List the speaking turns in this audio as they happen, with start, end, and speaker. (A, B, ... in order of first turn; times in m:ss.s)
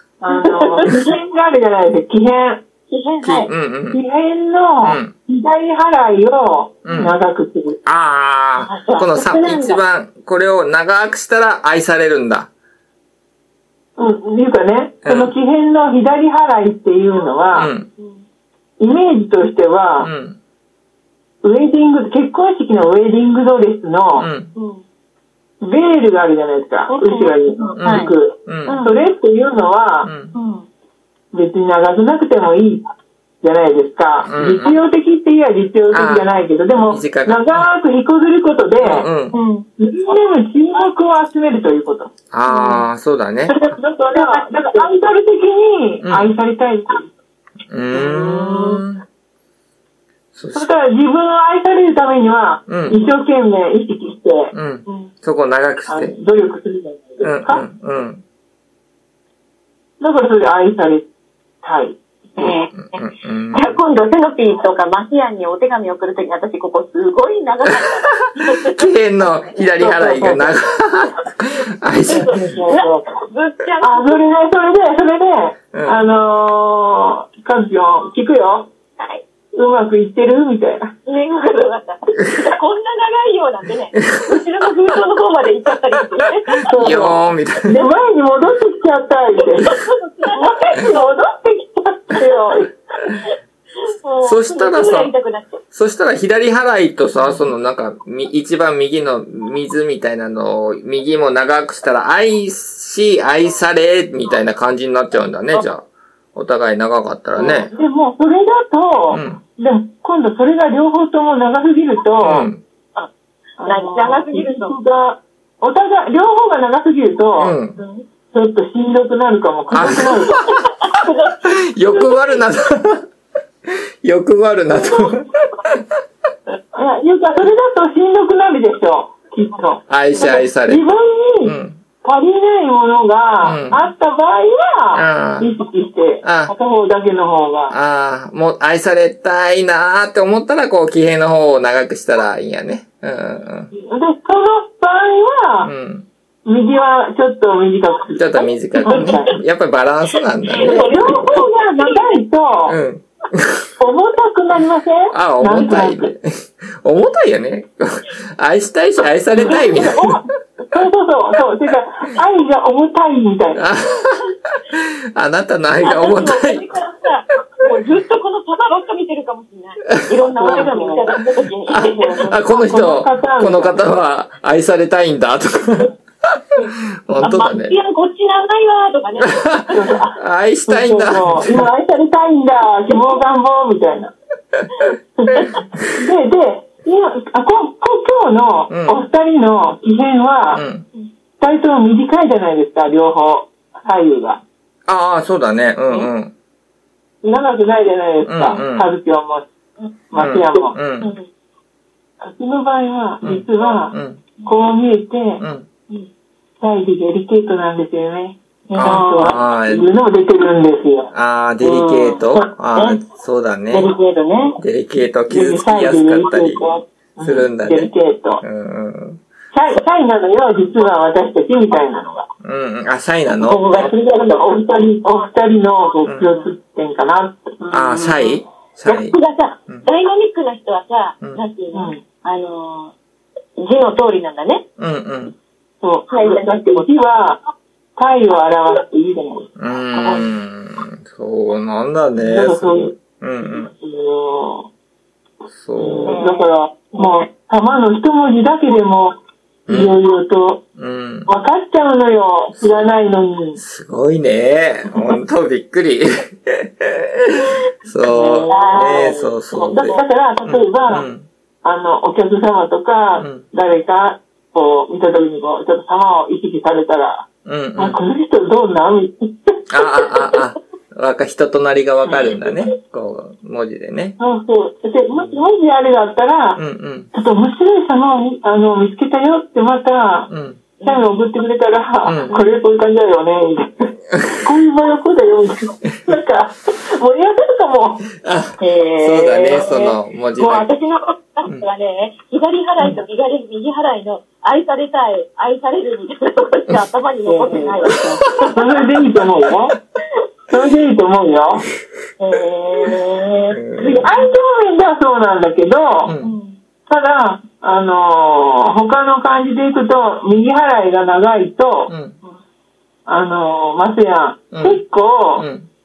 0:00.2-0:02.6 A
0:00.3-0:01.1 B
0:02.9-0:03.5 B
0:03.2-0:04.0 C
0:03.9-0:07.8 A
0:04.8-0:05.1 C
0:06.8-0:07.2 C
0:07.8-0:12.5 C
0:08.6-0:09.8 B
0:14.0-0:17.7 A
0:15.0-0:15.3 C
0:17.5-0:17.9 C
0:18.0-0:18.2 B
0:18.8-0:20.1 A
0:20.0-0:20.4 C
0:21.4-0:24.3 A
0:24.2-0:24.5 C
0:24.5-0:24.8 B
0:25.6-0:30.1 A
0:26.9-0:28.1 B
0:27.8-0:28.8 C
0:28.6-0:29.0 B
0:30.0-0:30.3 C
0:30.3-0:30.6 B
0:31.3-0:32.8 A
0:33.4-0:39.1 A
0:34.2-0:34.8 C
0:35.9-0:36.3 C
0:36.9-0:37.7 C
0:38.8-0:39.4 C
0:39.3-0:39.6 B
0:39.8-0:42.1 A
0:42.3-0:43.6 C
0:42.5-0:42.8 B
0:43.5-0:44.7 B
0:43.7-0:47.1 A
0:46.0-0:46.3 C
0:47.7-0:49.0 C
0:47.9-0:48.8 B
0:50.3-0:50.7 C
0:50.5-0:54.5 A
0:52.7-0:53.0 C
0:54.5-0:56.1 C
0:55.9-0:57.6 A
0:57.2-0:58.2 C
1:00.0-1:01.1 A
1:01.6-1:02.0 A
1:02.4-1:02.9 B
1:02.7-1:03.8 C
1:03.5-1:08.9 B
1:08.7-1:12.6 C
1:09.8-1:10.5 B
1:12.1-1:14.2 B
1:12.1-1:13.0 A
1:13.8-1:18.7 A
1:15.7-1:16.0 C
1:19.5-1:20.9 A
1:21.1-1:27.0 B
1:26.6-1:29.7 A
1:26.8-1:27.8 C
1:27.7-1:28.0 B
1:29.6-1:31.2 B
1:30.4-1:32.7 A
1:32.1-1:32.6 B
1:34.0-1:35.6 B
1:34.2-1:35.1 C
1:35.7-1:47.7 C
1:47.4-1:52.5 A
1:49.1-1:49.4 C
1:52.2-1:52.6 C
1:53.6-1:57.6 A
1:53.6-1:54.7 B
1:57.4-1:57.8 C
1:57.8-1:58.0 B
1:58.3-2:00.4 A
1:59.7-2:00.4 C
1:59.7-2:02.2 B
2:01.7-2:03.0 C
2:03.7-2:05.8 C
2:04.7-2:05.2 B
2:06.7-2:17.8 A
2:09.9-2:10.8 C
2:11.4-2:11.8 C
2:13.4-2:13.9 C
2:14.9-2:15.6 C
2:16.2-2:16.5 C
2:17.7-2:23.7 C
2:23.7-2:25.7 A
2:25.6-2:26.1 C
2:26.4-2:29.3 A
2:28.2-2:31.2 C
2:28.8-2:29.3 B
2:30.5-2:32.2 B
2:30.6-2:32.8 A
2:32.6-2:33.6 C
2:33.8-2:36.1 A
2:35.1-2:40.2 C
2:39.4-2:40.2 B
2:40.7-2:43.6 A
2:43.5-2:46.6 C
2:45.8-2:52.7 B
2:50.4-2:51.1 A
2:50.4-2:50.7 C
2:51.7-2:55.9 C
2:51.7-2:53.8 A
2:57.0-2:57.7 C
2:57.2-3:00.1 B
2:59.7-3:00.1 A
3:00.2-3:01.7 C
3:00.7-3:04.1 A
3:02.9-3:03.2 B
3:05.4-3:05.6 B
3:05.9-3:10.6 A
3:08.7-3:09.0 C
3:10.5-3:10.9 C
3:11.4-3:14.4 A
3:14.9-3:16.3 C
3:17.2-3:19.5 A
3:18.2-3:18.9 C
3:20.1-3:20.7 A
3:20.2-3:21.1 C
3:21.0-3:21.2 B
3:22.2-3:23.9 A
3:23.2-3:24.2 C
3:24.4-3:26.0 A
3:25.4-3:25.6 C
3:26.6-3:31.1 A
3:28.7-3:29.3 B
3:28.7-3:29.8 C
3:31.1-3:33.9 C
3:31.6-3:33.0 B
3:33.7-3:34.6 B
3:34.6-3:36.6 C
3:35.3-3:38.4 A
3:37.2-3:37.9 C
3:38.4-3:39.2 C
3:39.5-3:42.3 A
3:42.4-3:43.9 C
3:43.3-3:44.5 B
3:43.8-3:47.7 A
3:46.0-3:46.3 C
3:47.7-3:49.2 C
3:47.7-3:52.9 B
3:51.7-3:52.0 A
3:53.6-3:54.6 B
3:54.8-3:55.3 C
3:55.8-3:57.4 A
3:56.1-3:56.9 B
3:58.0-3:59.5 A
3:59.6-4:03.7 C
4:00.0-4:00.3 B
4:02.2-4:04.7 A
4:05.5-4:06.2 C
4:05.8-4:09.2 A
4:06.0-4:06.4 B
4:09.7-4:10.0 C
4:09.7-4:10.6 A
4:10.8-4:11.3 C
4:11.2-4:13.6 A
4:12.5-4:12.9 C
4:13.6-4:21.3 C
4:18.0-4:21.1 A
4:18.5-4:20.0 B
4:21.6-4:29.6 A
4:23.2-4:23.4 C
4:27.4-4:28.0 C
4:29.7-4:34.2 C
4:32.1-4:32.4 A
4:34.2-4:36.6 A
4:35.1-4:35.4 C
4:36.6-4:37.1 C
4:37.1-4:40.3 A
4:40.3-4:40.6 C
4:40.8-4:41.2 B
4:40.8-4:48.1 A
4:42.0-4:42.3 C
4:42.3-4:42.6 B
4:48.2-4:50.7 C
4:48.6-4:58.7 B
4:57.2-4:59.7 A
5:00.5-5:01.6 A
5:02.2-5:04.0 B
5:03.5-5:04.1 C
5:03.8-5:06.1 A
5:06.0-5:06.3 C
5:06.2-5:06.6 B
5:06.9-5:11.9 A
5:11.9-5:12.2 C
5:13.0-5:15.5 A
5:14.5-5:14.8 C
5:15.4-5:15.7 C